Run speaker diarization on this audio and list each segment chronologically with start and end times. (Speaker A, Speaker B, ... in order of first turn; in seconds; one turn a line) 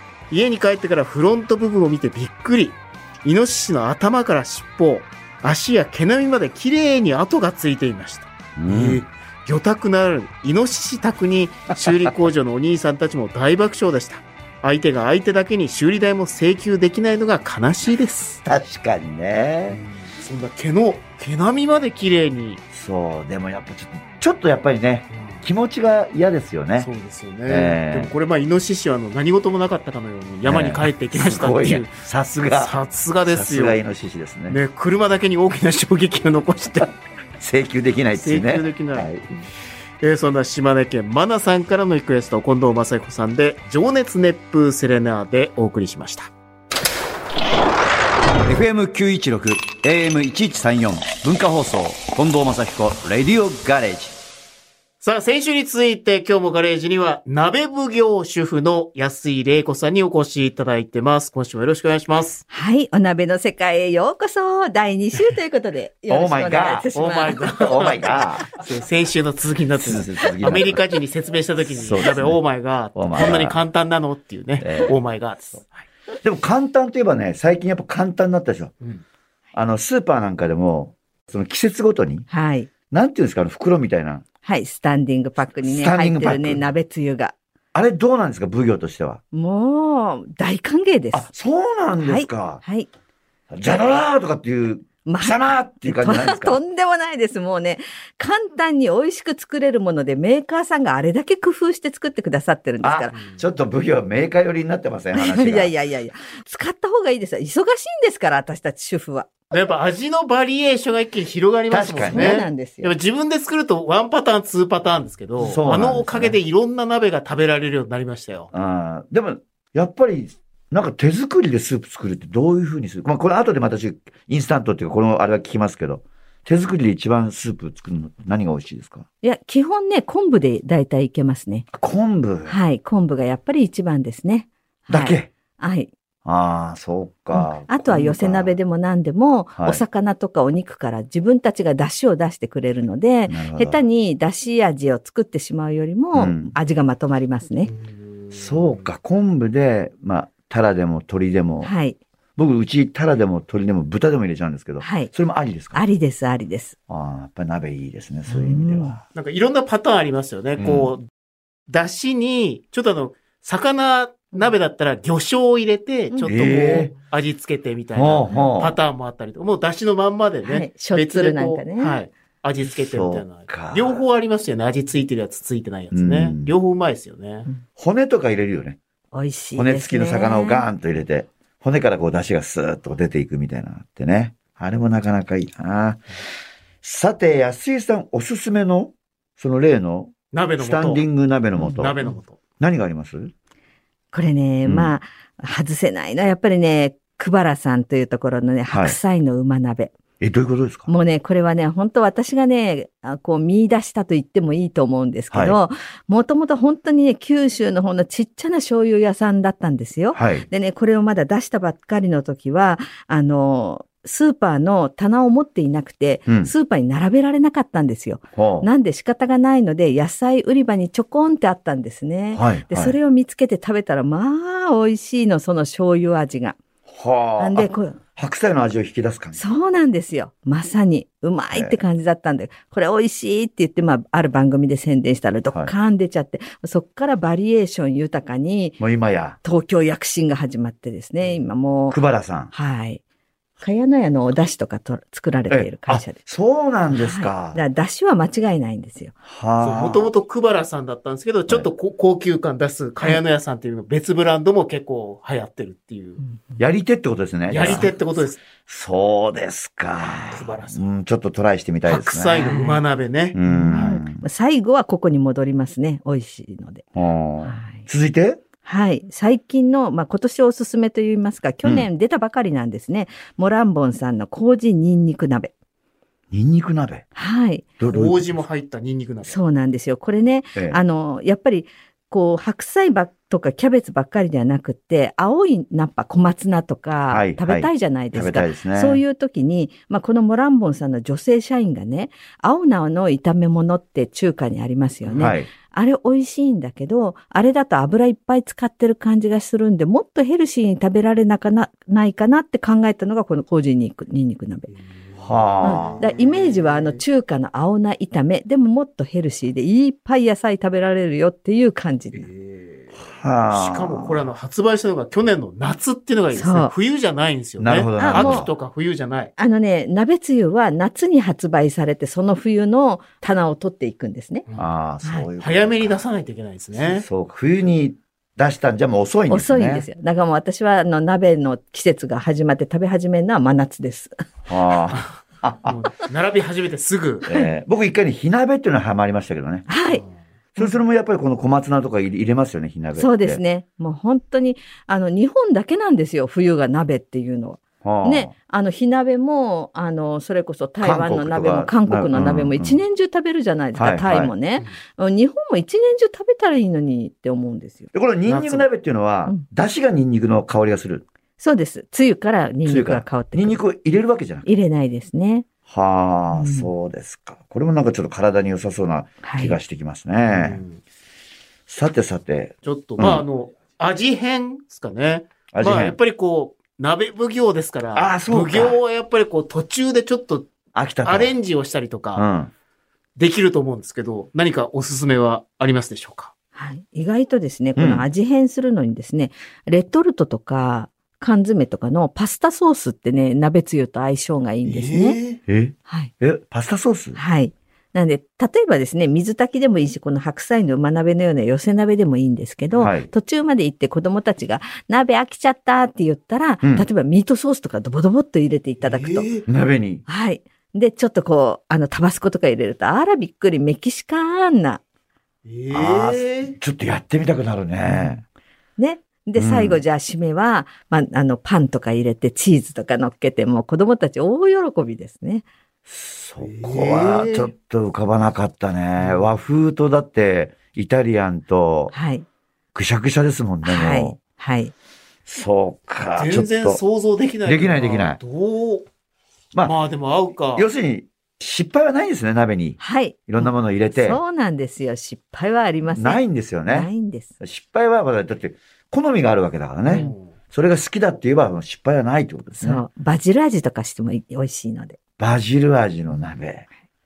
Speaker A: 0.3-18.4
Speaker B: 8.6-9.0
Speaker B: 11.9-12.1
Speaker B: 18.4-19.8
Speaker A: 19.7-22.6
Speaker B: 22.7-26.9
Speaker A: 25.1-25.4
Speaker A: 26.8-32.0
Speaker B: 27.5-28.1
Speaker B: 30.4-34.6
Speaker A: 32.5-33.8
Speaker A: 34.5-36.9
Speaker B: 37.4-39.2
Speaker A: 38.2-39.5
Speaker A: 40.0-46.3
Speaker B: 48.4-54.1
Speaker A: 55.0-62.4
Speaker C: 62.5-67.5
Speaker B: 66.1-66.9
Speaker A: 66.9-75.8
Speaker B: 67.4-68.5
Speaker B: 69.8-70.8
Speaker B: 71.7-72.4
Speaker B: 73.0-73.6
Speaker B: 74.6-75.0
Speaker B: 76.2-78.7
Speaker B: 79.5-82.3
Speaker C: 82.3-82.7
Speaker B: 82.9-84.2
Speaker C: 84.5-87.3
Speaker B: 85.6-86.6
Speaker B: 87.7-89.2
Speaker C: 89.3-91.3
Speaker B: 91.1-92.6
Speaker C: 92.0-92.9
Speaker B: 93.5-96.6
Speaker C: 95.0-103.2
Speaker B: 102.8-105.7
Speaker A: 103.1-103.4
Speaker C: 105.1-109.3
Speaker A: 109.5-118.5
Speaker B: 111.7-112.4
Speaker C: 112.0-112.9
Speaker B: 115.4-116.4
Speaker B: 118.5-129.1
Speaker C: 129.2-131.7
Speaker B: 131.7-132.6
Speaker C: 132.5-135.9
Speaker B: 134.9-135.3
Speaker B: 136.2-138.6
Speaker C: 137.3-147.7
Speaker B: 139.6-139.8
Speaker B: 143.3-143.8
Speaker B: 146.2-146.6
Speaker A: 147.7-148.8
Speaker B: 148.3-151.7
Speaker C: 151.6-152.0
Speaker B: 152.4-155.8
Speaker C: 154.8-155.1
Speaker C: 155.7-156.8
Speaker B: 156.9-159.0
Speaker C: 158.3-159.0
Speaker A: 159.2-161.1
Speaker B: 160.6-160.9
Speaker A: 161.7-177.5
Speaker C: 166.1-166.9
Speaker B: 166.3-166.9
Speaker B: 167.9-168.8
Speaker C: 170.4-172.0
Speaker B: 172.8-174.0
Speaker B: 175.9-176.5
Speaker B: 177.8-178.8
Speaker C: 179.1-180.7
Speaker B: 179.6-186.0
Speaker B: 186.8-192.0
Speaker A: 190.3-191.0
Speaker C: 191.6-192.1
Speaker A: 191.7-192.4
Speaker B: 192.6-193.3
Speaker C: 194.1-199.9
Speaker B: 194.7-194.9
Speaker B: 198.7-199.0
Speaker B: 200.2-200.9
Speaker C: 200.9-226.6
Speaker B: 205.3-205.6
Speaker B: 210.2-210.5
Speaker B: 218.4-218.7
Speaker B: 222.3-223.0
Speaker B: 226.9-229.4
Speaker C: 227.4-228.0
Speaker C: 229.4-238.8
Speaker B: 231.5-231.8
Speaker B: 238.8-239.4
Speaker C: 239.4-242.0
Speaker B: 241.9-242.5
Speaker C: 242.5-243.0
Speaker C: 243.6-246.2
Speaker B: 245.5-247.6
Speaker C: 246.9-249.1
Speaker B: 249.3-250.1
Speaker A: 249.6-256.2
Speaker C: 256.2-256.6
Speaker B: 256.6-257.9
Speaker A: 257.5-258.4
Speaker B: 258.7-262.6
Speaker A: 260.2-260.9
Speaker A: 261.9-263.8
Speaker C: 262.4-262.8
Speaker B: 263.3-264.2
Speaker C: 263.5-266.9
Speaker B: 266.9-268.4
Speaker C: 267.4-267.9
Speaker C: 268.6-275.5
Speaker B: 276.3-277.1
Speaker C: 277.2-277.7
Speaker B: 277.8-278.4
Speaker A: 277.8-279.4
Speaker C: 279.2-304.7
Speaker B: 287.1-289.0
Speaker B: 295.1-295.5
Speaker A: 304.7-307.0
Speaker B: 305.2-306.1
Speaker C: 305.6-312.3
Speaker A: 312.1-312.9
Speaker B: 313.0-314.3
Speaker A: 313.5-319.3
Speaker C: 316.3-316.7
Speaker B: 317.6-318.5
Speaker C: 318.0-318.5
Speaker C: 319.4-324.4
Speaker B: 324.6-326.0
Speaker A: 325.4-327.1
Speaker B: 326.8-329.9
Speaker C: 329.3-334.1
Speaker B: 334.5-335.8
Speaker A: 334.9-337.3
Speaker B: 337.3-339.7
Speaker C: 339.7-340.0
Speaker B: 340.6-343.4
Speaker C: 342.9-357.9
Speaker B: 347.8-348.3
Speaker B: 350.8-352.8
Speaker B: 353.8-354.3
Speaker B: 357.9-361.1
Speaker A: 358.3-358.7
Speaker C: 361.4-363.6
Speaker B: 362.6-364.5
Speaker C: 364.4-365.5
Speaker B: 365.7-370.6
Speaker C: 366.3-366.7
Speaker C: 369.2-369.6
Speaker A: 370.3-370.8
Speaker B: 371.7-373.2
Speaker A: 372.6-380.5
Speaker B: 375.5-376.0
Speaker B: 377.9-378.8
Speaker B: 380.8-381.4
Speaker A: 381.0-382.3
Speaker B: 382.2-382.5
Speaker A: 383.2-386.3
Speaker C: 386.6-395.2
Speaker B: 387.8-388.1
Speaker A: 394.6-395.4
Speaker B: 395.5-397.2
Speaker C: 397.2-409.3
Speaker B: 402.8-403.1
Speaker B: 406.6-406.9
Speaker A: 408.8-409.4
Speaker B: 409.5-410.0
Speaker C: 410.1-414.8
Speaker A: 415.5-416.6
Speaker B: 415.7-418.2
Speaker C: 417.9-418.2
Speaker C: 418.8-425.5
Speaker B: 419.4-419.8
Speaker B: 425.9-431.9
Speaker A: 426.4-427.5
Speaker A: 429.0-429.3
Speaker C: 431.9-432.3
Speaker B: 432.7-434.2
Speaker C: 433.6-434.7
Speaker B: 435.3-436.8
Speaker A: 436.2-438.9
Speaker B: 437.4-438.2
Speaker A: 439.6-440.7
Speaker B: 440.6-444.2
Speaker C: 442.8-447.3
Speaker B: 445.9-446.9
Speaker B: 447.4-452.8
Speaker A: 449.9-450.3
Speaker C: 452.6-455.0
Speaker B: 455.2-456.7